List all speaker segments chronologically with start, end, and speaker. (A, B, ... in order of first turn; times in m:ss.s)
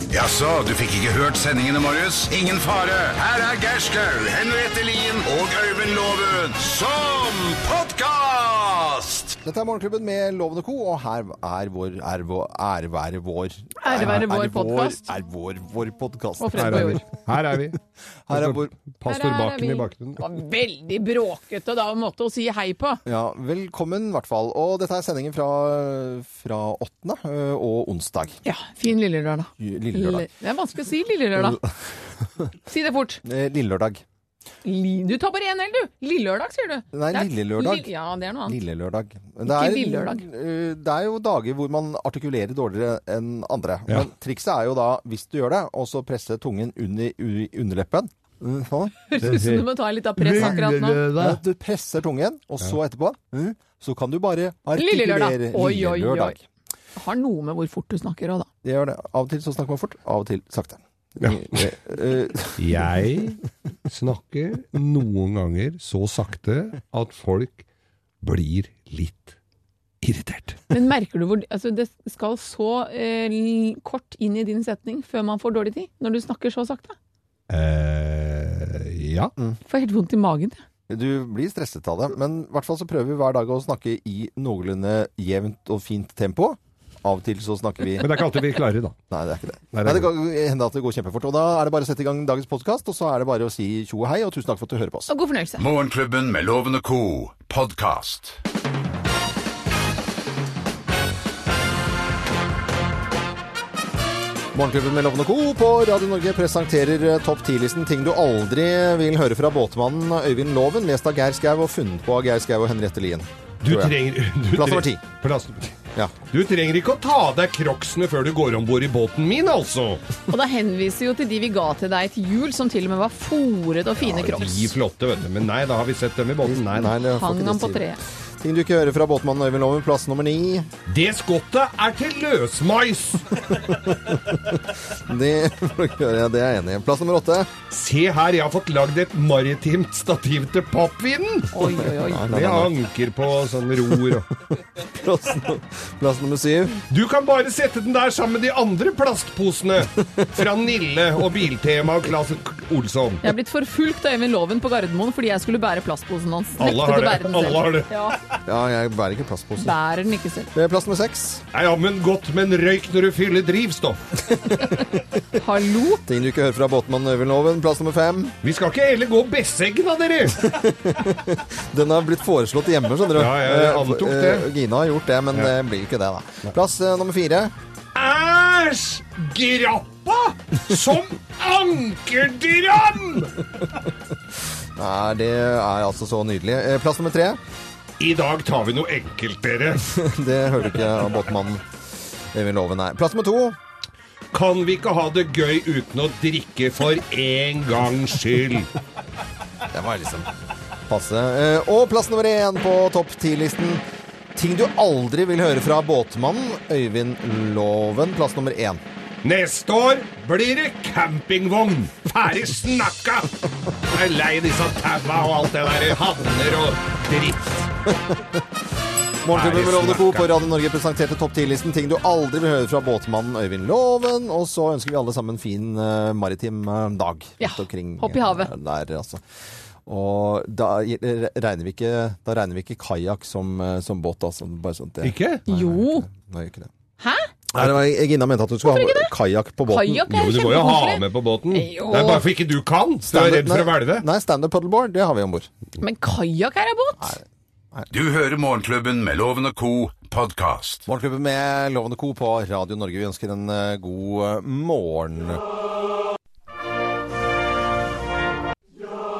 0:00.1-0:09.4 A
0:09.4-0:17.0 B
0:13.8-0:15.0 C
0:16.4-0:17.1 C
0:16.6-0:17.8 D
0:18.3-0:18.7 B
0:18.3-0:20.2 D
0:19.1-0:23.0 C
0:23.1-0:28.4 B
0:28.4-0:31.6 C
0:29.6-0:30.3 B
0:31.4-0:31.6 B
0:32.7-0:33.2 C
0:33.2-0:34.0 B
0:34.6-0:38.6 C
0:36.9-0:37.9 B
0:38.5-0:49.0 B
0:39.5-0:40.2 C
0:49.1-0:51.0 C
0:49.2-0:51.4 D
0:50.3-0:50.6 B
0:51.1-0:56.4 B
0:54.8-0:56.4 C
0:57.0-0:58.5 C
0:58.6-1:02.8 B
1:01.2-1:01.6 D
1:02.6-1:07.6 D
1:08.2-1:09.4 D
1:10.0-1:10.7 D
1:10.7-1:17.0 C
1:17.5-1:19.3 D
1:19.7-1:20.6 C
1:20.9-1:28.2 B
1:28.0-1:29.0 D
1:29.1-1:35.1 B
1:29.7-1:30.1 D
1:35.1-1:35.6 C
1:35.6-1:38.4 A
1:44.5-1:54.0 B
1:53.6-1:55.8 D
1:54.5-1:55.0 B
1:56.3-2:00.0 D
2:00.3-2:04.7 C
2:04.2-2:06.9 D
2:06.4-2:07.9 B
2:07.0-2:08.0 C
2:08.4-2:10.7 B
2:10.9-2:13.7 D
2:13.7-2:17.5 B
2:17.7-2:24.3 D
2:21.5-2:22.3 C
2:22.0-2:22.7 B
2:24.8-2:26.8 B
2:26.9-2:33.2 D
2:33.2-2:38.2 C
2:36.6-2:37.9 D
2:38.5-2:39.8 B
2:39.6-2:40.5 C
2:40.5-2:41.4 B
2:41.5-2:44.2 D
2:45.4-2:46.0 C
2:46.0-2:48.4 B
2:48.4-2:50.5 D
2:50.4-2:57.6 B
2:53.1-2:54.5 D
2:58.0-3:03.5 D
3:04.8-3:07.4 B
3:08.0-3:09.9 D
3:09.8-3:11.7 B
3:12.3-3:13.6 B
3:14.3-3:18.7 D
3:19.7-3:20.3 B
3:20.9-3:23.8 B
3:24.4-3:28.8 B
3:29.2-3:33.3 D
3:33.9-3:37.7 D
3:38.1-3:38.4 B
3:39.2-3:49.2 B
3:39.3-3:40.4 D
3:47.4-3:48.5 C
3:49.9-3:56.7 B
3:55.0-3:55.4 D
3:55.5-3:56.1 C
3:57.0-3:57.3 C
3:57.5-4:00.1 B
3:58.6-3:59.1 C
3:59.7-4:02.2 C
4:00.1-4:04.0 D
4:03.1-4:05.5 B
4:05.8-4:07.1 C
4:07.0-4:07.9 B
4:07.9-4:10.9 A
4:10.9-4:15.4 B